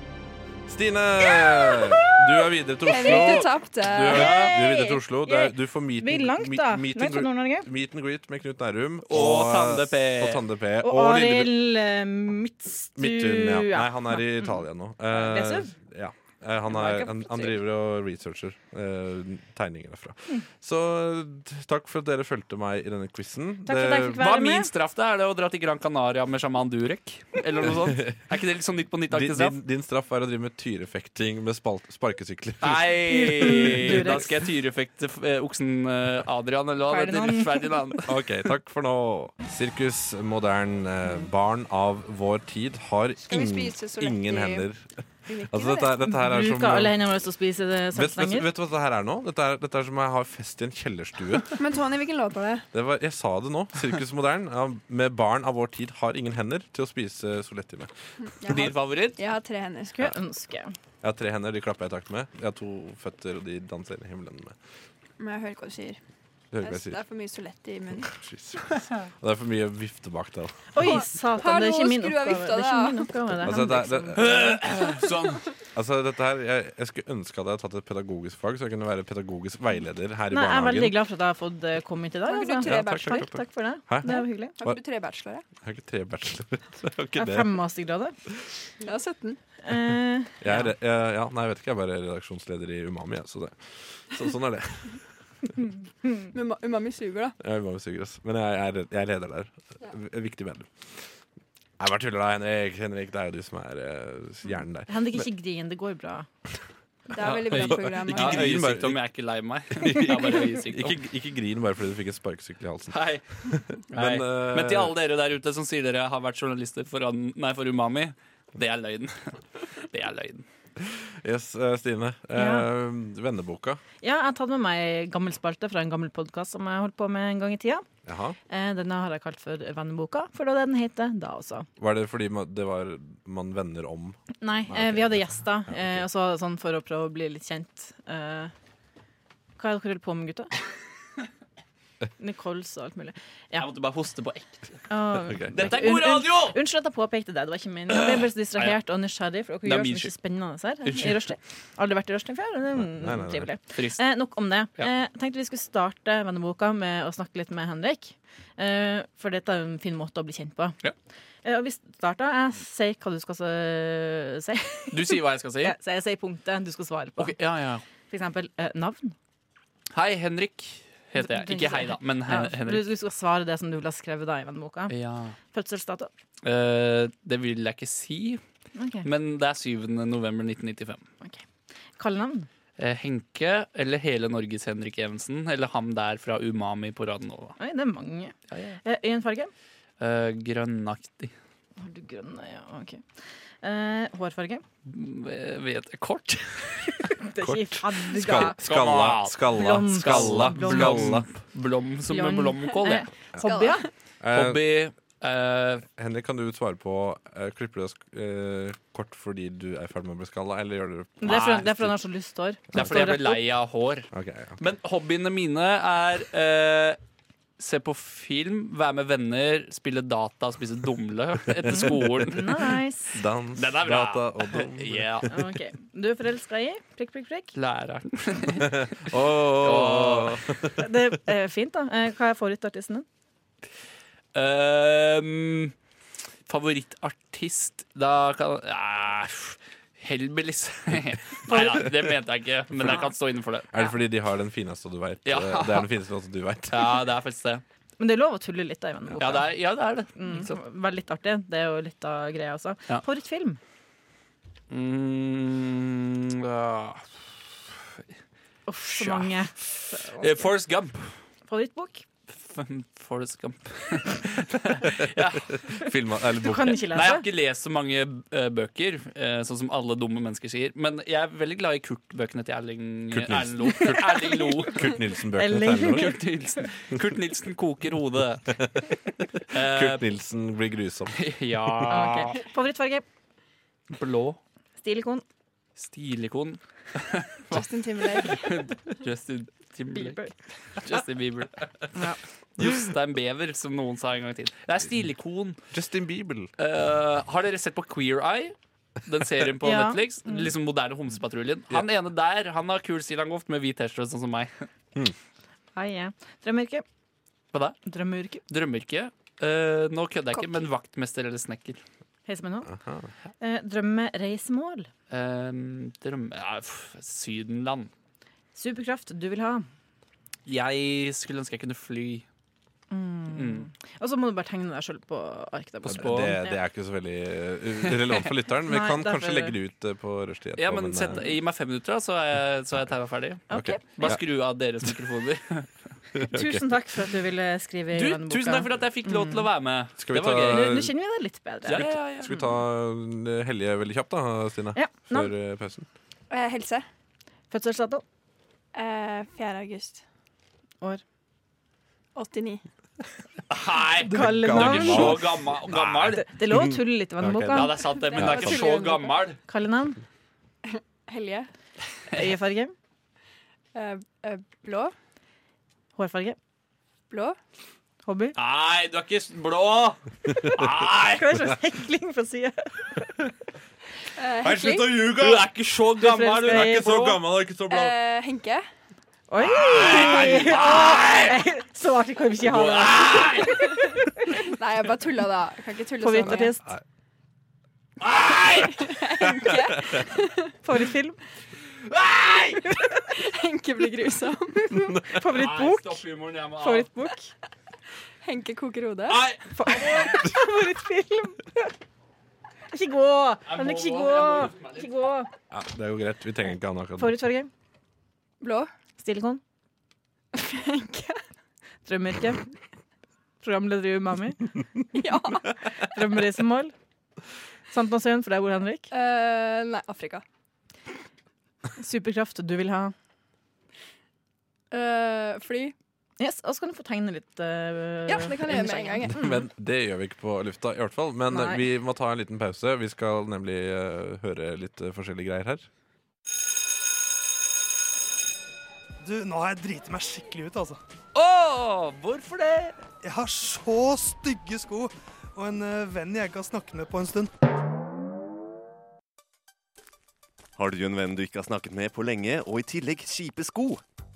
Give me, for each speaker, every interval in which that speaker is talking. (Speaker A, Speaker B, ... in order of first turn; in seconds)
Speaker A: 0.7-11.6, 13.0-24.3, 27.8-28.1, 29.1-34.1, 38.1-44.9, 45.5-47.0, 47.9-51.5, 52.7-57.9, 61.0-64.6, 66.5-67.0, 68.0-70.9, 73.4-74.6, 75.8-81.0, 82.6-84.8, 85.6-87.5, 90.4-95.0, 97.4-100.7, 101.8-105.3, 107.5-109.0, 109.7-115.0, 120.8-123.8, 128.1-128.4, 131.8-136.1, 145.3-145.7, 152.7-153.5, 197.4-201.3, 204.2-204.6, 206.0-211.9, 214.1-214.6, 223.1-225.3, 228.6-230.9, 243.7-247.0, 265.5-266.9, 273.1-276.1, 278.5-281.9, 295.7-296.5, 312.7-313.1, 325.9-331.3, 333.5-334.2, 336.1-336.8, 340.0-340.9, 341.8-345.9, 354.1-358.7, 374.4-375.5, 376.4-377.9, 389.6-390.0, 405.5-407.2, 429.1-435.7
Speaker B: 1.4-2.0, 2.8-4.5, 43.3-44.7, 45.3-46.0, 51.6-52.7, 58.2-60.0, 65.2-66.0, 66.6-68.1, 70.8-73.1, 82.2-83.3, 84.0-85.5, 88.8-89.4, 96.3-97.4, 107.1-108.7, 203.4-203.9, 287.5-288.7, 346.3-346.9, 348.7-350.0, 352.1-352.6, 358.0-359.1, 360.6-361.5, 363.8-364.9, 367.1-367.4, 374.2-375.0, 377.7-378.6, 384.4-386.5, 388.6-390.5, 393.1-394.9, 398.2-399.3, 408.4-408.7, 410.3-411.2, 414.9-415.6, 418.9-420.2, 424.7-425.8, 428.1-429.2
Speaker C: 4.1-7.7, 10.8-15.7, 16.7-17.6, 23.7-24.7, 33.1-34.3, 36.9-37.8, 46.1-48.5, 59.9-60.7, 70.7-74.7, 80.3-84.6, 87.2-88.2, 89.6-90.7, 104.9-106.3, 122.3-122.7, 124.0-127.8, 128.5-131.7, 134.4-138.5, 139.6-140.5, 142.2-143.7, 144.9-160.8, 161.4-167.4, 168.1-169.2, 171.2-174.9, 175.5-176.1, 178.8-179.1, 182.0-182.5, 187.6-189.5, 191.8-193.0, 193.6-194.6, 197.1-198.6, 199.5-201.2, 202.1-203.8, 211.2-213.4, 221.8-223.1, 225.3-227.5, 230.8-233.1, 241.5-241.9, 248.0-249.5, 250.2-253.6, 258.7-260.5, 261.5-262.1, 266.4-267.2, 275.3-276.2, 281.9-283.0, 284.8-285.2, 289.9-290.3, 299.6-300.5, 305.8-306.8, 307.9-308.4, 312.3-312.7, 313.4-314.9, 318.6-319.7, 322.9-326.6, 328.7-329.6, 333.5-334.2, 336.3-339.5, 340.4-342.0, 344.8-345.3, 347.5-348.0, 354.1-355.3, 356.1-357.8, 359.5-360.0, 362.1-362.7, 366.0-366.4, 368.1-368.4, 371.1-373.1, 376.0-377.1, 379.3-384.0, 386.0-386.7, 390.6-391.2, 395.0-397.3, 399.5-401.7, 402.7-405.3, 407.0-407.5, 409.0-409.4, 411.9-412.4, 413.4-414.5, 415.8-416.7, 417.7-418.9, 421.8-422.9, 426.2-429.3, 431.3-431.6
Speaker D: 9.1-10.4, 24.1-29.6, 32.6-38.2, 58.5-59.2, 74.2-75.5, 107.2-111.0, 112.9-113.2, 113.9-120.5, 143.6-144.8, 145.5-146.6, 147.9-148.8, 149.6-150.1, 153.8-154.0, 164.9-165.8, 167.2-167.8, 169.9-172.9, 174.9-175.4, 176.4-178.4, 179.0-181.0, 182.8-187.6, 188.5-188.8, 190.0-191.3, 194.9-197.1, 198.3-203.1, 204.3-205.9, 211.3-211.6, 212.7-217.0, 217.6-222.6, 223.6-225.3, 227.6-230.4, 234.3-235.7, 236.5-243.8, 245.3-245.9, 246.7-247.6, 249.2-250.6, 254.7-257.1, 259.0-261.1, 262.4-265.8, 266.9-274.9, 275.9-278.5, 279.5-280.0, 281.2-282.4, 283.9-284.4, 285.8-290.2, 290.8-291.6, 292.6-295.6, 296.6-304.7, 307.5-307.8, 308.5-311.8, 315.1-317.9, 320.5-322.2, 323.3-323.7, 325.8-326.3, 330.6-335.7, 337.9-340.8, 341.7-342.3, 353.5-356.2, 357.5-359.4, 368.4-371.4, 375.1-377.2, 379.5-381.4, 382.4-383.7, 388.0-388.9, 391.8-392.6, 395.2-396.9, 399.1-400.2, 403.5-404.9, 441.1-442.8
Speaker E: 439.0-440.8, 443.0-447.3
Speaker F: 450.6-453.8